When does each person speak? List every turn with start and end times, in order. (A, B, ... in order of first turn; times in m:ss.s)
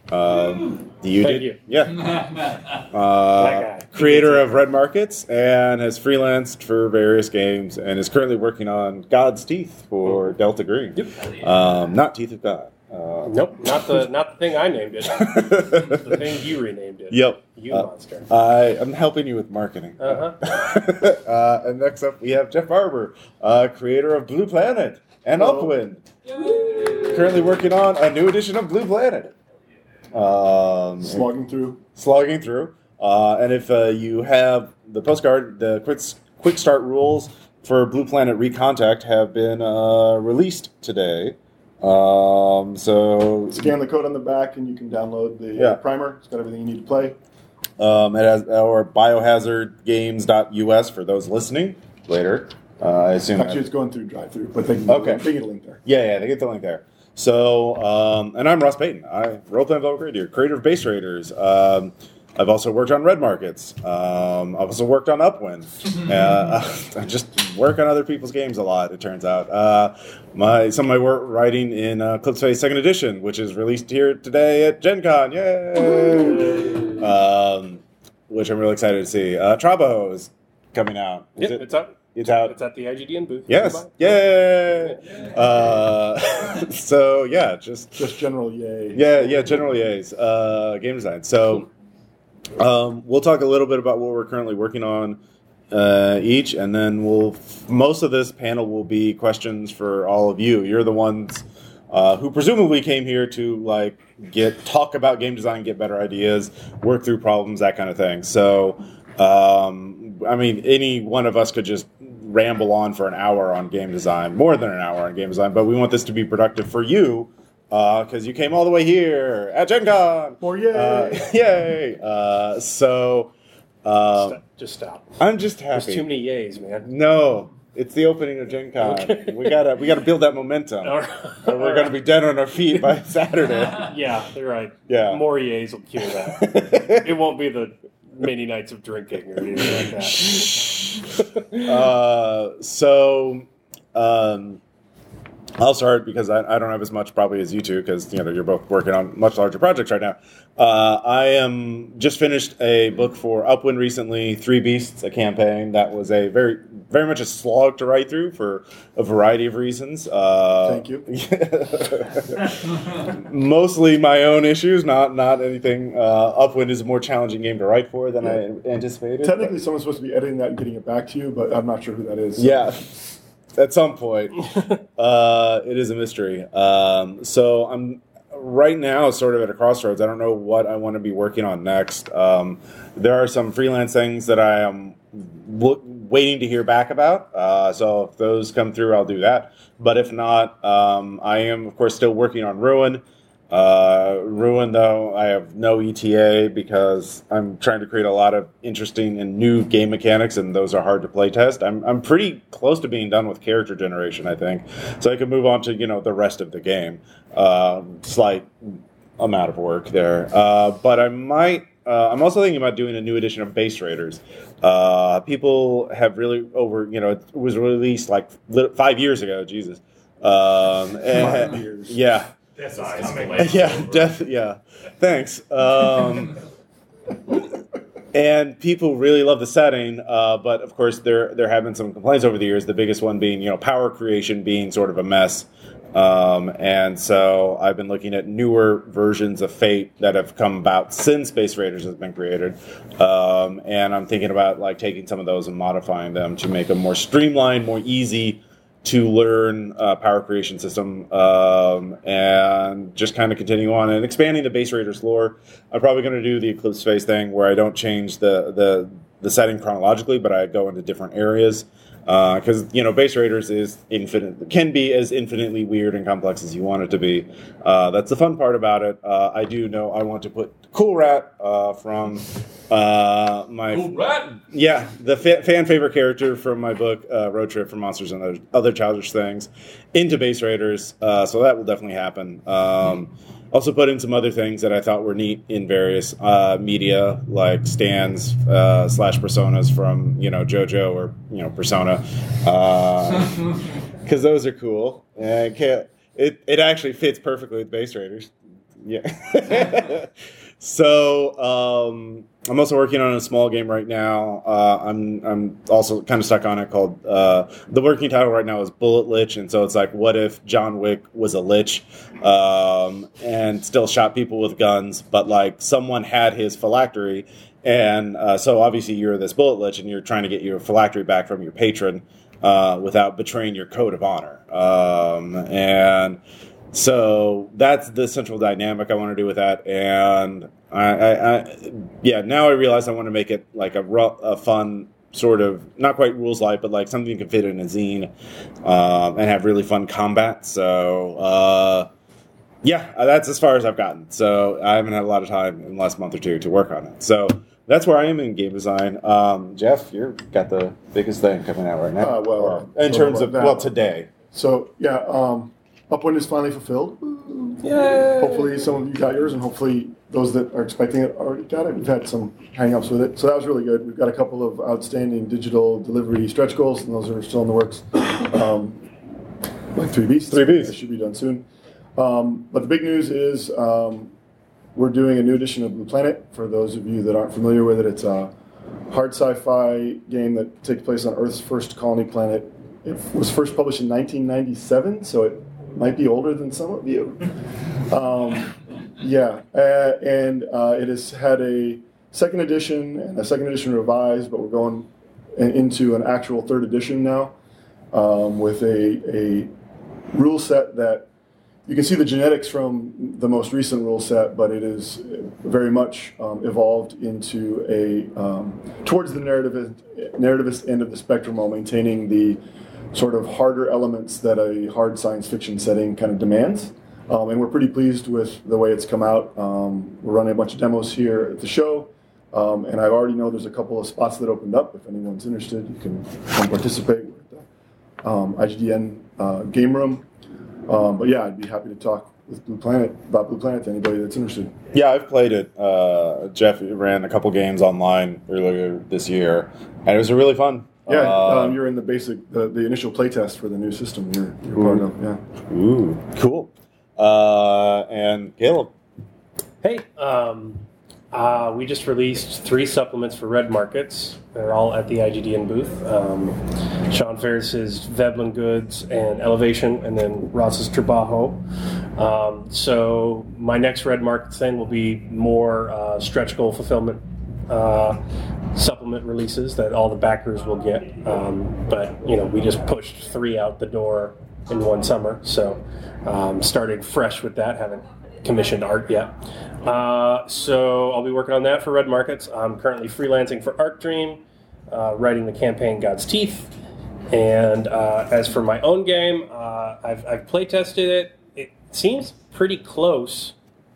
0:00.1-0:02.2 A
0:01.2-0:01.6 B
0:02.9-0:13.9 A
0:03.4-0:04.6 B
0:13.3-0:18.3 B
0:15.1-0:16.0 A
0:17.1-0:26.0 A
0:20.0-0:20.4 B
0:25.4-0:25.7 C
0:26.6-0:29.3 A
0:30.1-0:31.3 A
0:31.0-0:31.8 C
0:32.0-0:43.7 A
0:43.5-0:47.2 C
0:47.8-0:53.6 A
0:53.4-0:55.8 C
0:54.9-0:55.2 A
0:55.8-1:22.6 A
1:21.4-1:24.2 B
1:23.5-1:28.0 A
1:28.0-1:29.6 C
1:28.9-1:31.7 A
1:32.6-1:35.2 A
1:35.7-2:03.3 A
2:00.4-2:01.3 C
2:03.8-2:04.4 A
2:04.2-2:05.1 B
2:05.2-2:06.0 A
2:05.7-2:06.9 B
2:06.8-2:10.9 A
2:08.8-2:09.6 B
2:10.8-2:12.0 B
2:11.4-2:13.9 A
2:13.7-2:20.5 B
2:14.9-2:15.2 A
2:16.3-2:17.0 A
2:19.6-2:21.0 A
2:21.2-2:21.6 B
2:21.6-2:24.6 A
2:25.6-2:49.5 A
2:40.6-2:41.1 C
2:49.2-2:52.6 C
2:52.4-3:42.3 A
3:41.1-3:42.0 C
3:42.6-3:44.2 D
3:43.4-3:46.4 A
3:48.1-4:53.5 A
4:33.7-4:34.4 D
4:54.0-4:58.3 A
4:58.8-5:26.2 A
5:26.7-5:38.1 A
5:38.6-5:41.9 A
5:42.6-5:54.1 A
5:52.0-5:53.7 C
5:54.3-6:08.9 C
6:09.7-6:11.4 C
6:10.3-6:10.7 A
6:12.0-6:14.1 C
6:14.8-6:18.3 C
6:18.9-6:27.3 C
6:27.9-6:37.4 C
6:37.9-6:39.5 C
6:40.1-6:41.1 C
6:41.7-6:52.4 C
6:52.9-7:07.5 C
7:08.0-7:10.0 C
7:10.7-7:14.5 C
7:14.7-7:21.6 A
7:20.9-7:25.2 C
7:24.6-7:24.8 A
7:25.5-7:28.7 A
7:29.6-7:41.4 B
7:42.0-7:48.0 B
7:48.5-8:06.5 B
8:07.1-8:13.3 B